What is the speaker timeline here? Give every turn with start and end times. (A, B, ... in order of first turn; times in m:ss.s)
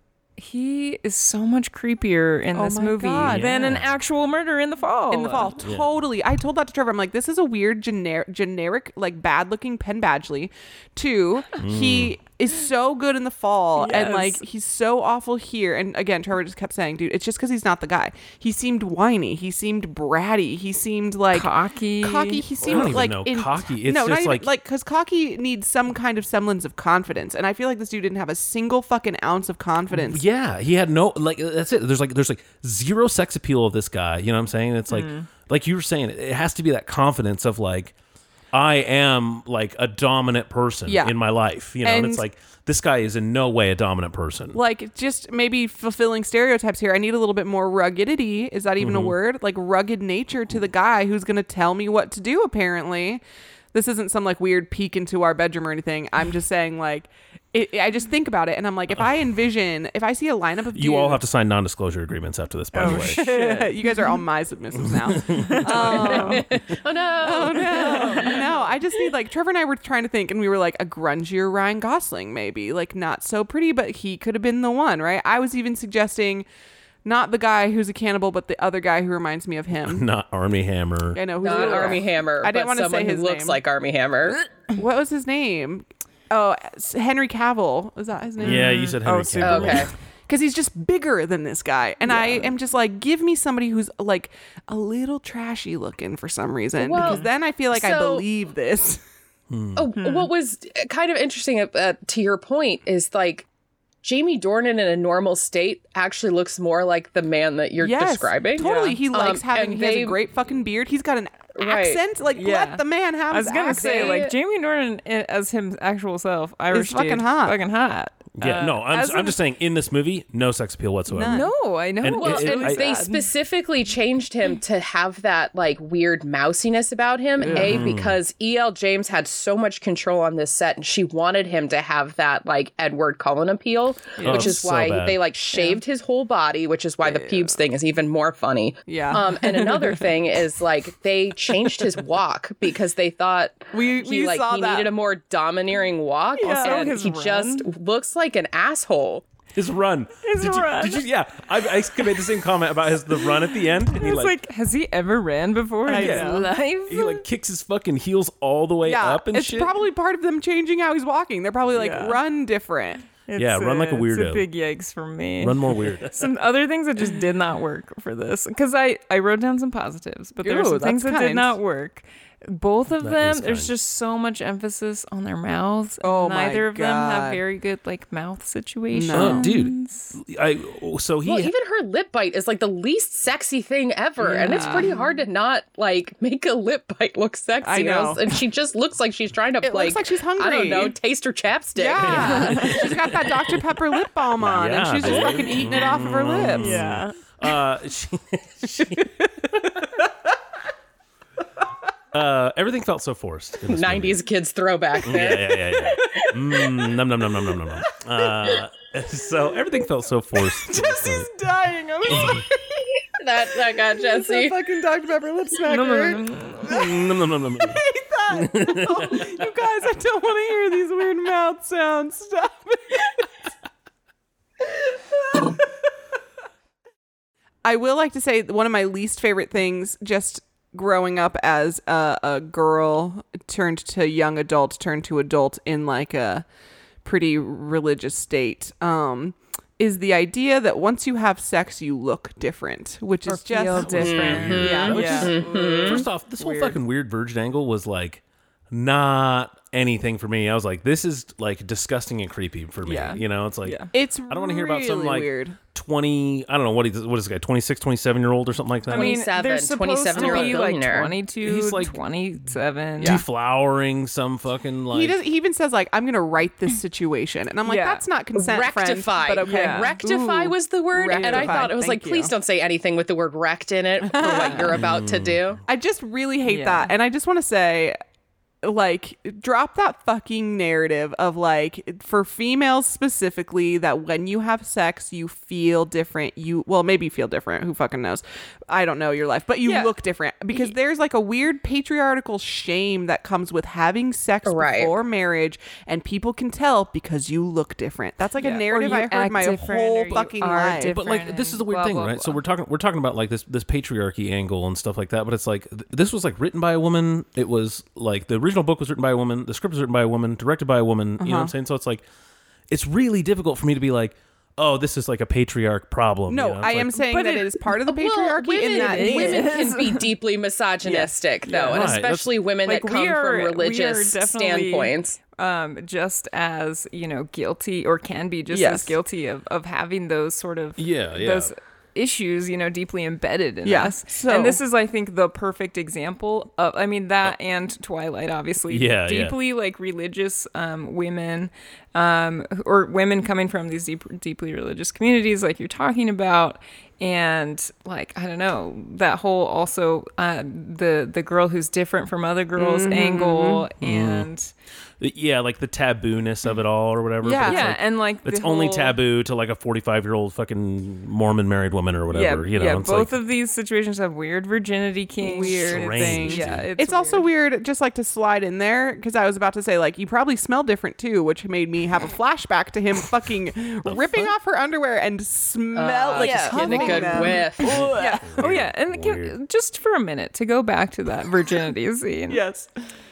0:00.4-0:05.5 A
0:02.5-0:03.7 B
0:03.2-0:04.0 C
0:05.1-0:30.2 B
0:05.6-0:05.9 C
0:11.6-0:12.1 C
0:13.8-0:14.4 A
0:21.3-0:23.0 A
0:22.6-0:24.5 C
0:29.9-0:37.9 C
0:34.9-0:35.2 A
0:38.5-0:44.6 C
0:40.9-0:41.1 B
0:41.8-0:42.2 B
0:44.5-1:01.2 B
0:48.8-0:49.1 C
1:00.7-1:03.3 C
1:02.7-1:04.0 A
1:02.8-1:06.6 B
1:04.8-1:06.0 C
1:05.3-1:06.6 A
1:05.8-1:08.5 D
1:07.2-1:16.4 B
1:07.6-1:08.6 A
1:17.0-1:20.0 B
1:19.9-1:21.8 C
1:21.1-1:23.6 B
1:21.4-1:24.4 D
1:24.7-1:28.8 B
1:28.4-1:29.9 C
1:28.4-1:29.9 A
1:29.4-1:29.9 D
1:30.3-1:39.0 B
1:32.1-1:32.5 D
1:36.8-1:38.2 D
1:37.0-1:37.3 A
1:39.5-1:39.9 C
1:39.7-1:43.5 D
1:39.9-1:40.3 A
1:44.0-1:50.2 D
1:47.8-1:54.2 B
1:48.6-1:49.0 A
1:51.5-1:52.0 D
1:52.3-1:59.4 A
1:53.7-1:54.3 D
1:56.7-1:57.6 B
1:58.4-2:01.5 C
2:01.1-2:01.5 B
2:01.2-2:03.3 A
2:02.0-2:02.9 C
2:02.1-2:29.2 D
2:07.4-2:07.8 B
2:07.4-2:07.7 A
2:07.5-2:08.2 C
2:14.2-2:14.6 B
2:14.2-2:15.3 C
2:17.0-2:17.5 B
2:18.9-2:20.1 B
2:23.7-2:24.9 B
2:26.4-2:27.7 A
2:26.4-2:26.9 B
2:29.5-2:34.3 C
2:30.2-2:31.0 A
2:33.3-2:37.2 A
2:35.8-2:36.5 B
2:35.9-2:39.7 C
2:38.8-2:43.0 B
2:41.7-2:42.2 A
2:43.3-3:00.2 A
2:43.4-2:44.4 C
2:45.4-2:46.3 C
2:50.4-2:51.6 B
2:53.0-2:53.7 C
2:56.0-2:57.4 B
2:58.9-2:59.5 B
2:59.1-3:01.5 C
3:01.2-3:12.6 D
3:04.2-3:04.8 B
3:04.2-3:05.0 A
3:07.6-3:08.3 B
3:09.6-3:11.0 B
3:11.8-3:17.0 B
3:12.0-3:13.6 C
3:12.2-3:12.9 A
3:14.4-3:19.3 C
3:16.5-3:17.1 A
3:22.1-3:24.2 C
3:23.6-3:26.9 D
3:25.0-3:31.3 C
3:30.6-3:33.0 B
3:32.1-3:32.4 C
3:33.2-3:34.6 D
3:33.6-3:37.0 B
3:35.6-3:36.8 A
3:36.6-3:39.3 C
3:37.6-3:43.2 B
3:45.3-3:45.6 B
3:47.6-3:56.4 B
3:57.0-4:06.0 B
4:03.3-4:06.8 A
4:03.7-4:19.2 C
4:04.0-4:06.0 D
4:12.8-4:13.9 A
4:13.9-4:15.6 B
4:18.9-4:23.2 A
4:18.9-4:21.1 D
4:20.1-4:20.6 C
4:21.4-4:21.9 C
4:23.0-4:25.2 C
4:24.9-4:32.3 B
4:27.6-4:28.0 A
4:28.3-4:35.6 D
4:29.4-4:30.1 A
4:31.1-4:31.9 A
4:34.0-4:34.8 B
4:34.3-4:34.7 A
4:34.7-4:35.6 C
4:35.7-4:38.0 B
4:36.5-4:36.9 A
4:38.6-5:01.0 B
4:49.6-4:49.9 A
4:54.4-4:54.9 D
4:58.4-5:02.4 A
5:00.9-5:12.0 C
5:11.2-5:11.5 B
5:12.7-5:17.0 C
5:16.3-5:19.8 B
5:17.0-5:17.7 A
5:17.9-5:25.2 D
5:18.6-5:20.1 A
5:21.4-5:22.0 A
5:21.6-5:22.3 C
5:22.6-5:54.5 A
5:28.5-5:29.0 B
5:30.8-5:31.5 C
5:33.6-5:34.6 B
5:38.7-5:39.3 C
5:52.6-5:53.7 B
5:53.8-5:54.3 C
5:55.0-6:03.2 C
5:57.2-5:59.0 A
6:02.1-6:07.2 A
6:05.2-6:18.2 B
6:05.4-6:06.7 C
6:13.8-6:14.3 C
6:15.7-6:17.9 D
6:16.2-6:22.4 A
6:17.6-6:19.3 C
6:22.3-6:22.7 B